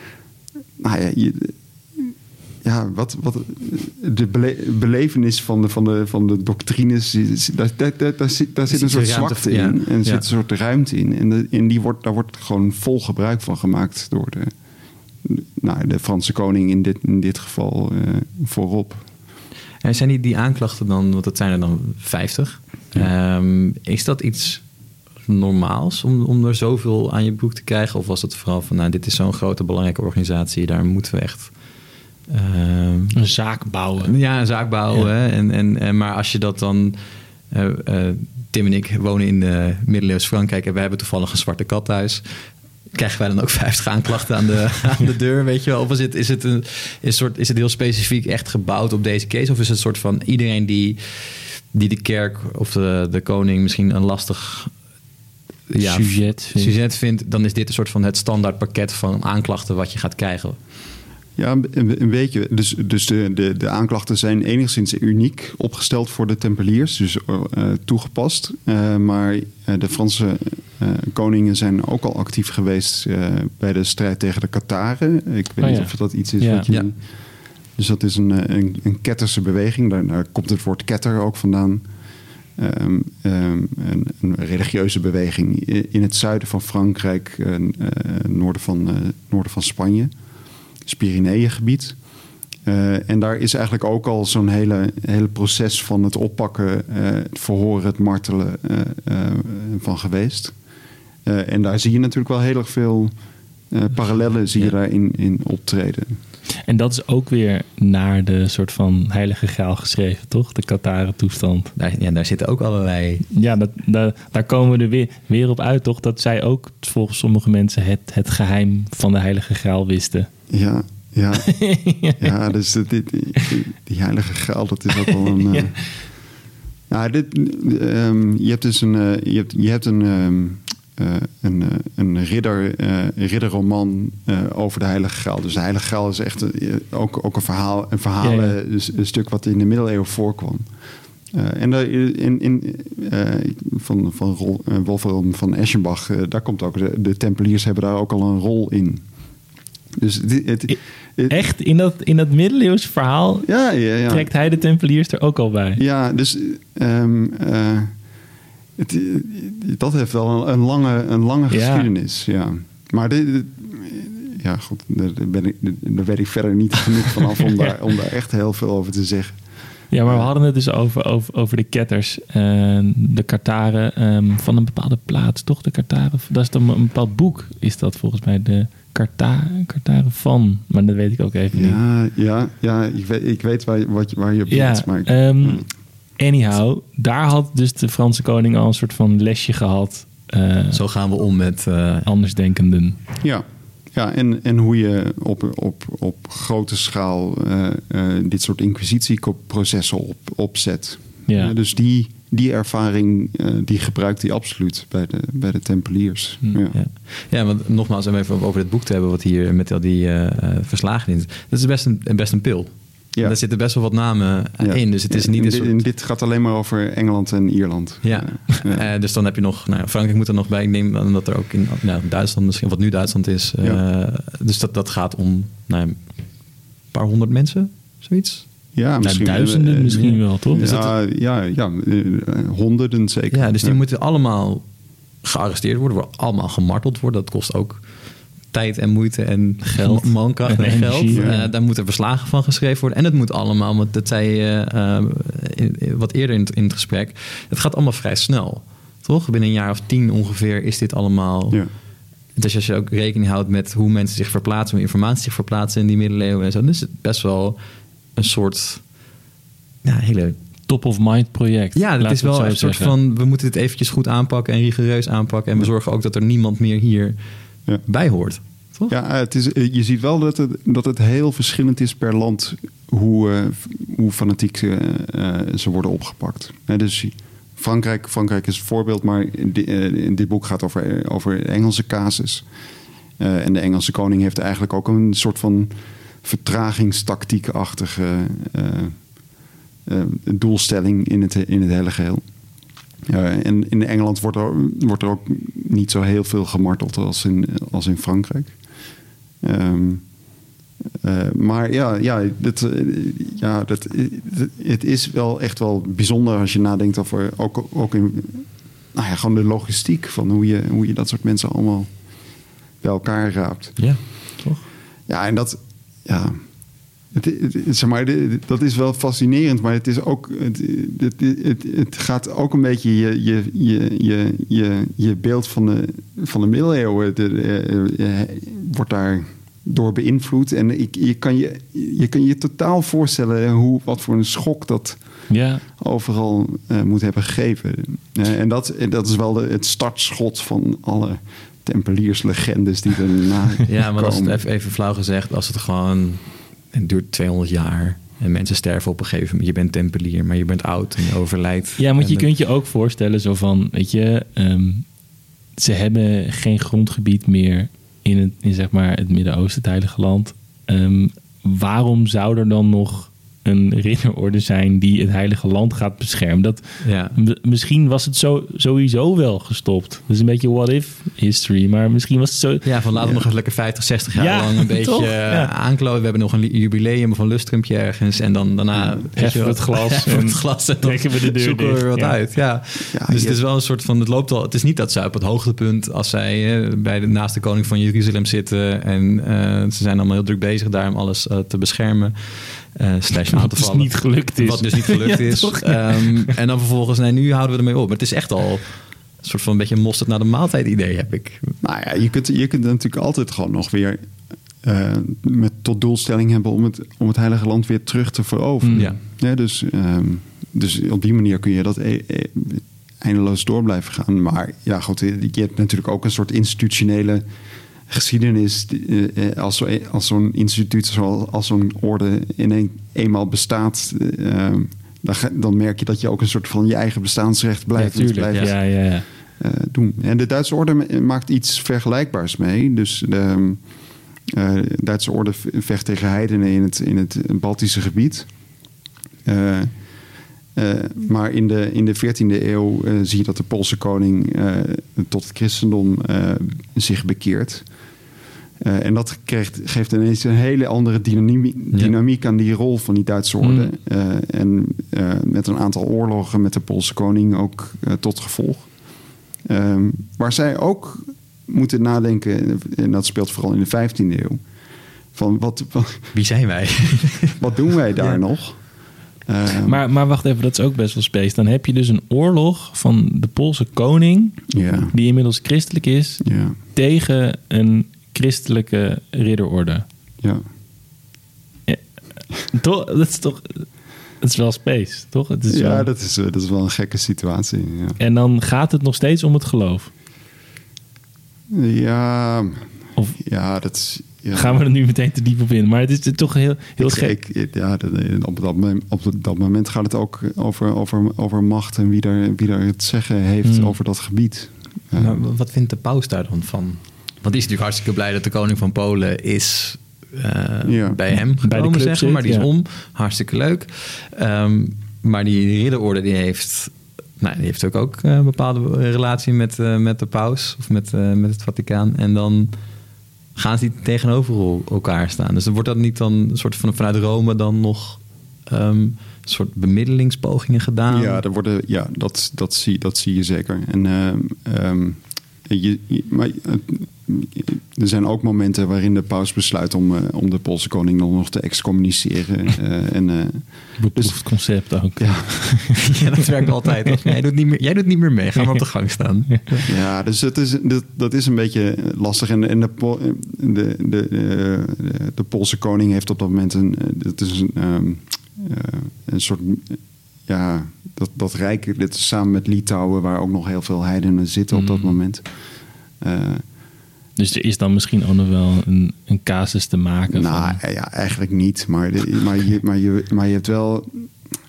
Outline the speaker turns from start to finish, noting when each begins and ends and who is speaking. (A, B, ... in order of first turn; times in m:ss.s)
0:00.8-0:14.5 A
0:08.7-0:10.3 B
0:15.2-0:19.1 A
0:19.8-0:24.6 B
0:25.2-0:31.6 B
0:32.3-0:37.0 B
0:33.1-0:34.2 C
0:37.5-0:54.7 B
0:55.7-0:56.8 C
0:55.7-1:00.6 B
1:01.4-1:17.2 A
1:15.6-1:16.7 C
1:16.7-1:16.9 B
1:17.7-1:21.9 A
1:22.5-1:30.1 A
1:30.8-1:32.0 A
1:32.6-1:40.6 A
1:41.2-1:43.1 A
1:43.7-1:46.1 A
1:46.6-1:51.7 C
1:51.8-1:53.2 B
1:53.3-2:00.3 C
2:00.5-2:01.6 A
2:01.4-2:02.3 C
2:02.2-2:05.9 A
2:05.1-2:05.7 C
2:06.9-2:20.7 A
2:18.2-2:18.6 C
2:21.3-2:29.0 A
2:30.0-2:31.4 A
2:31.3-2:35.8 C
2:33.4-2:34.3 A
2:35.8-2:38.0 A
2:38.8-2:49.4 A
2:41.5-2:41.9 C
2:49.9-3:01.8 C
2:50.0-2:50.3 A
3:01.5-3:05.6 A
3:04.5-3:10.8 C
3:10.7-3:12.1 B
3:12.0-3:13.0 C
3:13.2-3:26.7 A
3:21.3-3:21.5 C
3:26.7-3:35.8 B
3:34.6-3:38.9 A
3:38.0-3:46.2 B
3:46.9-3:48.5 B
3:48.7-3:53.8 A
3:49.0-3:50.7 C
3:49.9-3:51.0 B
3:53.3-3:54.6 B
3:55.2-3:57.9 B
3:58.5-4:11.8 B
3:59.6-4:01.4 C
4:01.1-4:01.4 A
4:12.3-4:17.6 B
4:18.1-4:18.9 B
4:19.8-4:20.4 B
4:20.7-4:22.9 C
4:21.7-4:27.2 B
4:27.8-4:29.0 B
4:28.9-4:42.5 A
4:43.2-4:45.7 A
4:46.2-4:49.1 A
4:49.8-4:52.2 A
4:53.0-4:58.6 A
4:59.4-5:00.1 A
5:01.0-5:11.9 A
5:12.8-5:13.9 A
5:13.8-5:14.6 B
5:15.1-5:16.4 A
5:17.1-5:44.4 A
5:35.3-5:35.6 C
5:43.7-5:52.3 B
5:51.8-5:54.9 C
5:55.6-6:12.7 C
6:06.8-6:07.2 B
6:12.6-6:41.5 B
6:13.0-6:13.2 A
6:14.2-6:15.5 C
6:18.7-6:19.0 A
6:19.1-6:22.2 C
6:22.9-6:23.4 A
6:33.3-6:36.3 C
6:41.6-6:57.2 A
6:48.6-6:48.9 C
6:57.9-7:13.6 A
7:07.8-7:09.0 C
7:14.3-7:18.3 A
7:19.2-7:19.8 A
7:20.5-7:27.7 A
7:28.6-7:38.8 A
7:33.4-7:33.7 C
7:39.4-7:44.4 A
7:45.1-7:46.1 A
7:46.1-7:47.4 B
7:47.4-7:48.7 A
7:49.2-7:49.8 A
7:49.6-7:59.8 C
7:54.5-7:54.9 A
7:56.2-7:56.6 A
8:01.7-8:03.7 C
8:04.2-8:05.9 C
8:05.5-8:08.0 A
8:08.0-8:09.9 C
8:11.5-8:14.6 A
8:13.0-8:13.2 C
8:14.3-8:17.2 C
8:16.8-8:25.2 A
8:23.4-8:23.8 C
8:24.9-8:42.6 B
8:30.6-8:31.0 A
8:31.4-8:32.5 C
8:43.3-8:51.2 B
8:50.9-9:05.7 A
9:03.8-9:06.0 C
9:05.8-9:09.7 B
9:08.4-9:08.6 C
9:09.3-9:09.6 C
9:09.6-9:25.4 A
9:24.5-9:25.0 C
9:26.0-9:26.4 A
9:27.2-9:30.6 C
9:30.1-9:34.2 A